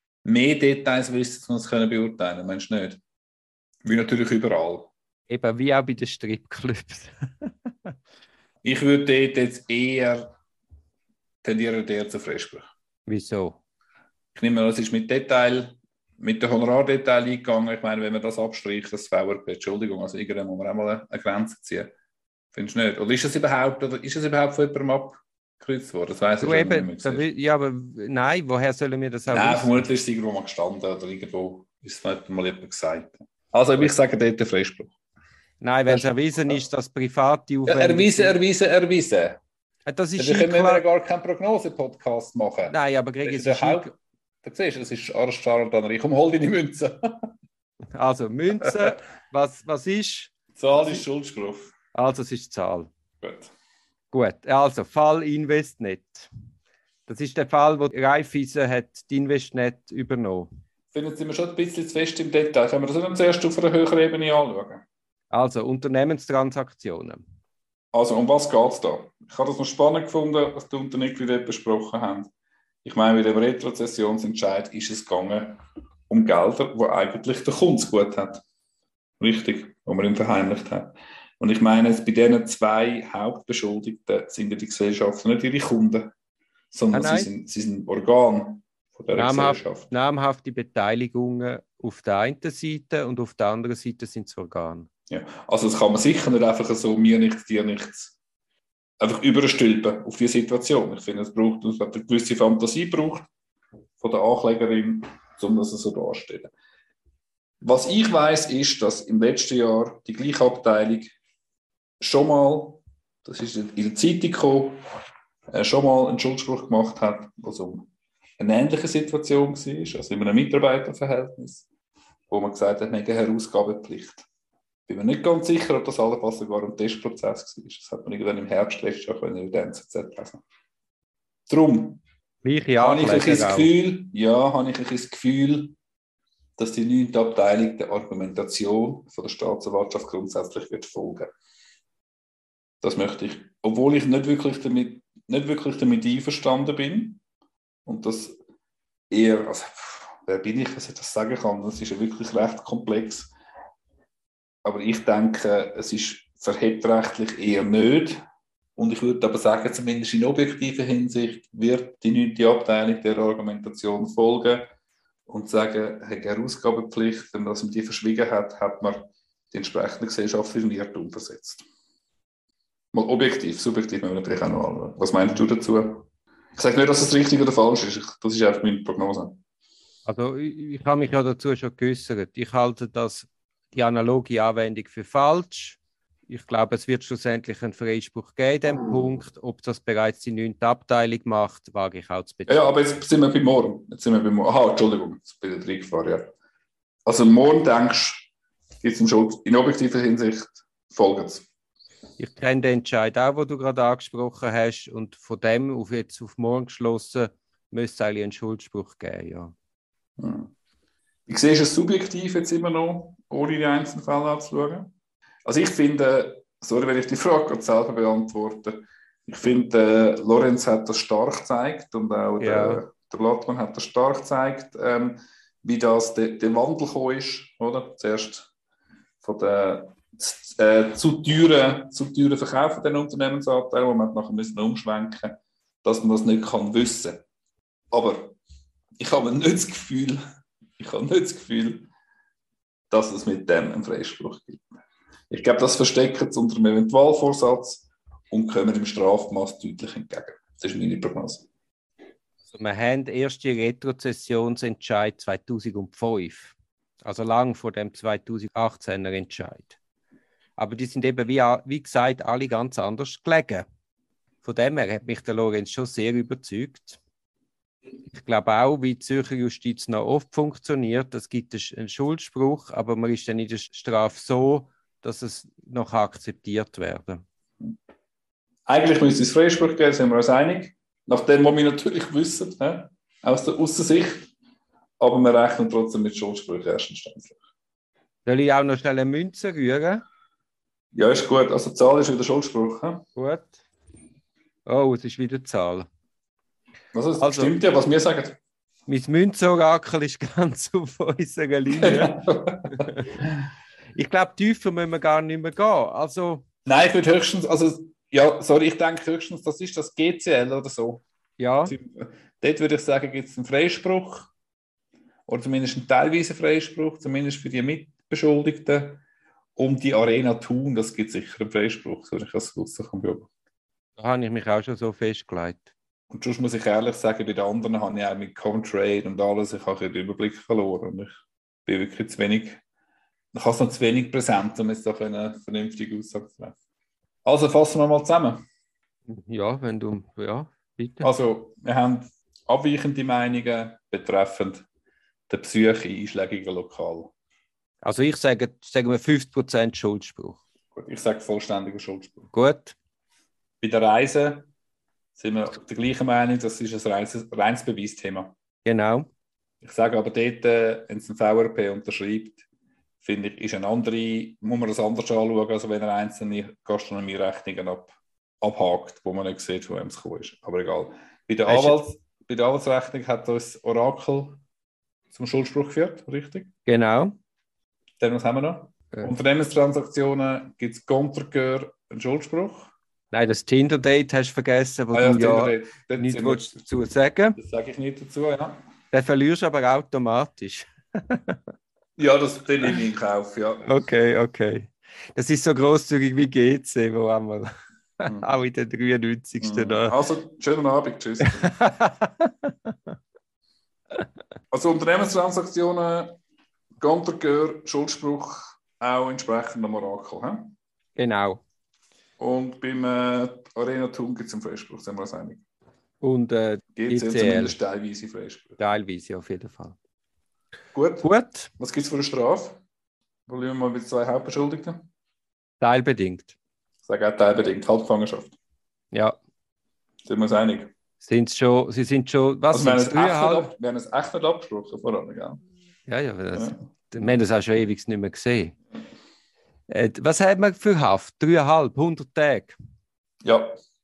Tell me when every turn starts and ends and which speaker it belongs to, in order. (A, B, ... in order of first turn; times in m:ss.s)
0:00.2-0:03.0 A
0:03.8-0:04.9 A
0:05.3-0:07.9 B
0:08.6-0:10.3 A
0:11.4-0:12.6 A
0:13.1-0:13.6 B
0:14.3-0:21.9 A
0:22.5-0:27.2 A
0:26.4-0:29.9 B
0:29.3-0:35.0 A
0:35.6-0:38.4 B
0:35.9-0:36.6 A
0:37.7-0:39.4 A
0:39.8-0:40.8 B
0:40.2-0:43.9 A
0:42.7-0:43.9 B
0:44.4-0:47.0 A
0:47.9-0:51.0 B
0:50.6-0:51.7 A
0:51.9-0:52.9 B
0:53.2-0:53.5 A
0:54.1-0:56.3 B
0:57.1-1:00.5 B
1:00.9-1:04.8 A
1:05.3-1:07.2 B
1:07.9-1:12.3 A
1:12.8-1:18.4 A
1:19.2-1:26.1 A
1:26.7-1:29.9 A
1:26.9-1:27.3 B
1:29.2-1:34.9 B
1:35.1-1:38.2 A
1:39.0-1:43.3 A
1:44.0-1:46.5 A
1:47.6-1:51.2 A
1:52.0-1:54.8 A
1:55.5-2:01.7 A
2:02.3-2:04.2 A
2:04.9-2:10.4 A
2:11.5-2:12.0 A
2:12.4-2:13.7 B
2:12.8-2:15.8 A
2:16.6-2:21.3 A
2:22.8-2:27.2 A
2:27.8-2:28.4 A
2:29.1-2:33.3 A
2:34.6-2:38.2 A
2:38.8-2:44.7 A
2:45.3-2:51.6 A
2:52.9-2:59.4 A
3:00.1-3:12.7 B
3:12.5-3:16.3 A
3:17.0-3:21.4 A
3:22.2-3:29.5 B
3:30.2-3:30.5 A
3:31.3-3:34.9 A
3:35.4-3:48.5 A
3:42.4-3:42.8 B
3:49.2-3:57.2 A
3:57.9-3:58.3 A
3:59.0-4:00.2 A
4:00.8-4:01.9 A
4:02.9-4:04.6 A
4:05.3-4:11.5 A
4:12.5-4:19.8 B
4:20.6-4:23.6 B
4:24.4-4:27.0 B
4:28.1-4:37.2 B
4:38.7-4:44.3 A
4:45.0-4:47.4 A
4:48.2-4:50.0 B
4:50.9-4:53.0 A
4:53.2-4:53.6 B
4:54.6-4:55.9 B
4:56.9-4:58.4 A
4:57.2-4:57.5 B
4:58.9-5:03.1 B
5:01.7-5:02.9 A
5:04.0-5:06.4 B
5:06.6-5:11.0 A
5:11.4-5:11.7 B
5:11.7-5:14.3 A
5:15.3-5:19.0 A
5:19.6-5:23.3 A
5:24.0-5:25.7 B
5:26.1-5:32.6 A
5:33.3-5:36.5 A
5:37.2-5:38.4 A
5:39.1-5:41.1 B
5:41.0-5:44.6 A
5:45.3-5:47.1 A
5:47.8-5:50.4 B
5:50.7-5:52.3 A
5:52.3-5:52.7 B
5:53.6-5:54.5 A
5:55.2-5:58.3 A
5:58.6-5:59.1 B
5:59.6-6:02.4 A
6:03.0-6:14.4 A
6:11.4-6:11.8 B
6:15.1-6:16.5 A
6:16.6-6:17.1 B
6:18.0-6:22.7 A
6:23.1-6:27.4 B
6:24.9-6:26.6 A
6:27.4-6:28.6 A
6:28.9-6:31.4 B
6:32.0-6:33.7 A
6:33.6-6:40.0 B
6:39.4-6:41.5 A
6:41.2-6:42.7 B
6:44.5-6:46.2 A
6:46.8-6:50.5 A
6:51.0-6:51.4 B
6:52.2-6:55.4 A
6:56.0-6:57.6 B
6:56.8-6:58.6 A
6:58.6-6:59.8 B
7:00.7-7:01.1 A
7:01.0-7:01.5 B
7:01.6-7:02.6 A
7:03.3-7:04.8 A
7:05.6-7:06.3 B
7:06.8-7:08.4 A
7:08.9-7:09.2 B
7:10.0-7:10.7 A
7:11.0-7:13.5 B
7:12.5-7:15.4 A
7:15.9-7:18.5 B
7:19.7-7:22.6 B
7:23.2-7:23.6 A